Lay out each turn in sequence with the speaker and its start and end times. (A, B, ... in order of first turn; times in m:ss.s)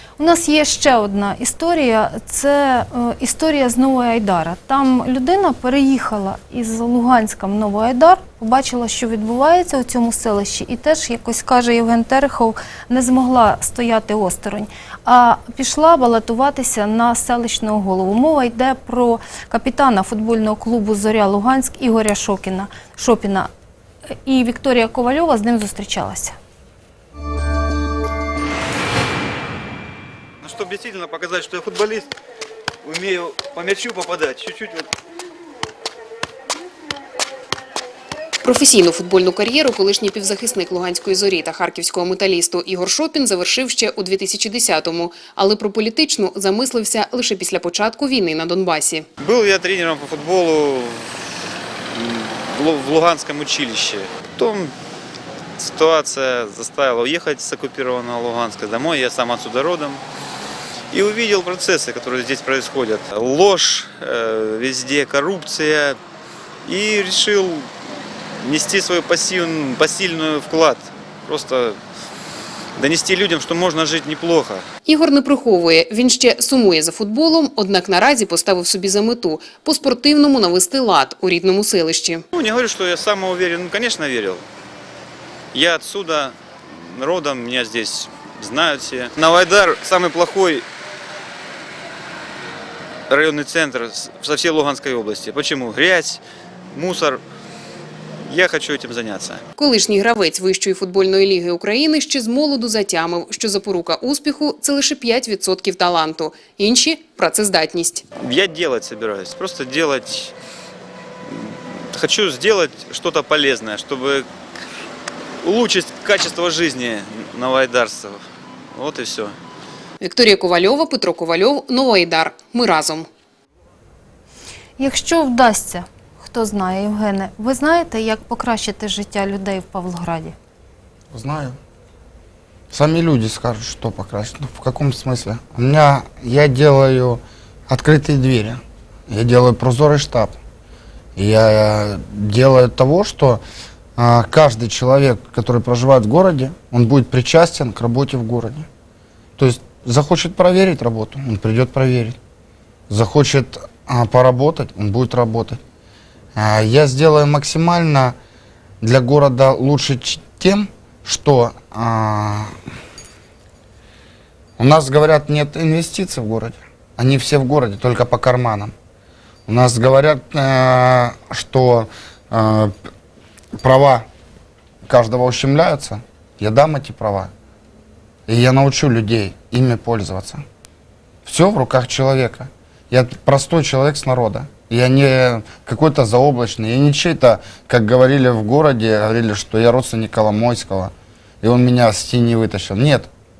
0:00.2-0:23.5 A
0:24.2-0:26.4 A
0:30.4-0:32.1 B
0:32.8-0:34.9 B
0:38.4-0:49.1 C
0:49.2-0:51.3 B
0:51.9-0:54.7 B
0:55.6-1:00.0 B
1:00.9-1:06.0 B
1:06.6-1:07.7 B
1:08.4-1:11.8 B
1:12.8-1:14.6 B
1:14.8-1:22.2 C
1:22.3-1:24.4 B
1:25.5-1:30.6 B
1:33.1-1:36.2 B
1:36.7-1:37.2 B
1:38.2-1:39.4 B
1:39.6-1:48.0 C
1:48.2-1:50.3 B
1:51.3-1:54.3 B
1:55.4-1:59.4 B
2:00.0-2:03.1 C
2:04.8-2:10.3 A
2:11.1-2:11.6 D
2:12.7-2:20.4 D
2:21.2-2:23.4 D
2:24.0-2:28.7 D
2:29.4-2:32.2 D
2:32.9-2:35.6 D
2:36.4-2:38.1 D
2:38.8-2:42.6 D
2:44.6-2:48.7 D
2:49.5-2:52.9 D
2:53.6-2:54.1 D
2:54.8-2:57.3 D
2:58.3-3:00.4 D
3:01.2-3:13.1 D